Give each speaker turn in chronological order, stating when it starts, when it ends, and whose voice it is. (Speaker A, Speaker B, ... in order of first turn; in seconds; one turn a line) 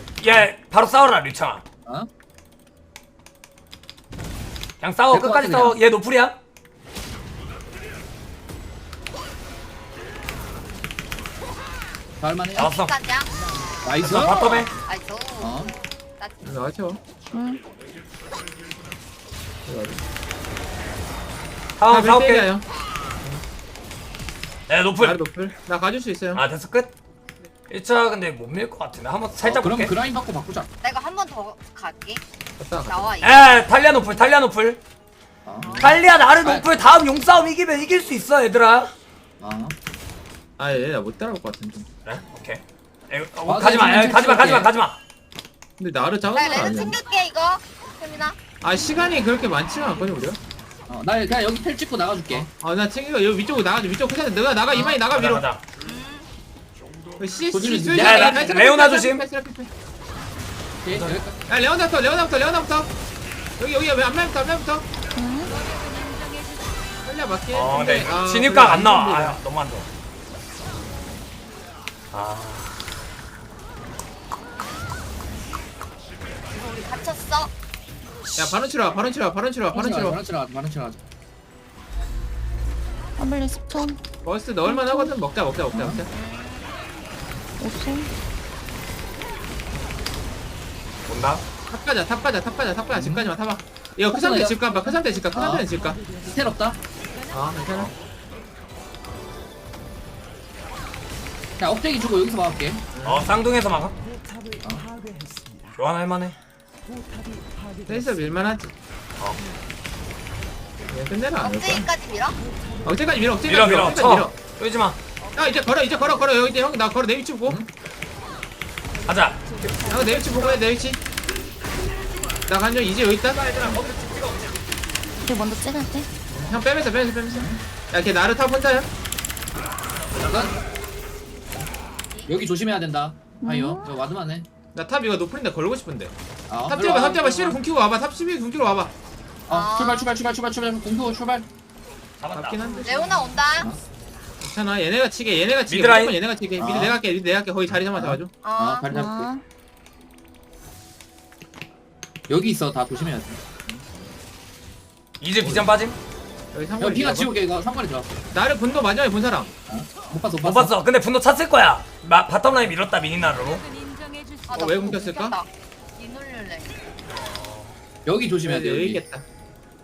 Speaker A: 0.2-1.6
Speaker A: 4.8-6.4
Speaker B: 5.1-5.8
Speaker B: 12.2-12.7
Speaker A: 12.6-12.9
Speaker C: 12.6-13.3
Speaker B: 13.8-14.7
Speaker A: 14.0-14.7
Speaker C: 14.7-16.4
Speaker B: 15.4-15.7
Speaker D: 16.4-17.0
Speaker E: 17.3-17.6
Speaker D: 19.7-20.0
Speaker A: 21.8-22.5
Speaker D: 21.9-22.6
Speaker A: 24.7-25.2
Speaker D: 25.0-26.4
Speaker A: 26.3-26.9
Speaker A: 27.7-29.9
Speaker B: 29.4-30.7
Speaker C: 30.8-32.2
Speaker D: 32.6-33.1
Speaker C: 32.9-33.5
Speaker A: 33.2-34.8
Speaker B: 35.5-36.7
Speaker C: 35.6-35.9
Speaker D: 35.6-36.0
Speaker A: 35.8-38.9
Speaker B: 39.4-39.8
Speaker D: 40.6-41.9
Speaker A: 42.0-45.0
Speaker B: 43.5-44.7
Speaker D: 45.8-47.0
Speaker C: 46.3-48.4
Speaker D: 48.6-50.4
Speaker B: 50.9-52.5
Speaker D: 52.6-55.5
Speaker A: 54.8-55.6
Speaker C: 55.8-56.3
Speaker D: 57.2-59.7
Speaker B: 57.5-58.4
Speaker A: 58.0-59.2
Speaker B: 60.8-61.4
Speaker A: 60.9-61.2
Speaker D: 61.5-62.9
Speaker D: 63.6-64.9
Speaker E: 65.2-65.5
Speaker D: 67.0-69.4
Speaker A: 67.5-69.9
Speaker A: 72.1-72.8
Speaker C: 76.5-77.5
Speaker D: 78.4-80.2
Speaker B: 79.7-81.0
Speaker E: 83.2-84.0
Speaker D: 84.2-86.1
Speaker E: 84.7-85.2
Speaker B: 85.7-86.0
Speaker C: 86.1-86.7
Speaker E: 87.6-88.1
Speaker A: 91.1-91.4
Speaker D: 91.7-96.0
Speaker B: 93.0-93.3
Speaker B: 94.1-94.6
Speaker B: 95.3-96.8
Speaker D: 97.3-97.9
Speaker B: 101.6-102.8
Speaker D: 103.0-103.3
Speaker A: 103.0-104.0
Speaker B: 104.6-104.9
Speaker A: 105.8-106.4
Speaker D: 107.9-108.7
Speaker D: 110.9-111.9
Speaker C: 111.4-112.4
Speaker D: 112.8-114.3
Speaker A: 113.5-115.0
Speaker D: 115.4-117.6
Speaker A: 119.1-119.8
Speaker D: 119.9-121.0
Speaker D: 122.5-123.5
Speaker A: 123.3-124.6
Speaker E: 125.2-126.1
Speaker D: 126.3-128.9
Speaker B: 127.3-127.6
Speaker A: 130.1-130.5
Speaker B: 130.2-130.6
Speaker C: 132.1-132.4
Speaker B: 132.3-134.5
Speaker E: 133.4-133.9
Speaker D: 134.7-136.2
Speaker B: 136.5-137.6
Speaker D: 136.7-138.9
Speaker B: 139.5-141.5
Speaker C: 139.5-140.1
Speaker A: 142.2-142.8
Speaker D: 142.3-143.3
Speaker C: 142.8-143.7
Speaker D: 144.4-148.3
Speaker A: 145.7-146.2
Speaker B: 146.6-147.0
Speaker B: 147.9-149.3
Speaker C: 148.4-148.9
Speaker E: 148.9-149.4
Speaker B: 152.3-153.8
Speaker A: 155.2-156.0
Speaker D: 155.4-155.7
Speaker D: 156.5-157.4
Speaker B: 156.8-158.2
Speaker D: 158.3-159.6
Speaker B: 159.7-160.7
Speaker A: 160.4-163.7
Speaker C: 164.5-166.9
Speaker D: 164.5-165.4
Speaker A: 167.1-167.8
Speaker B: 168.1-169.0
Speaker D: 168.4-169.2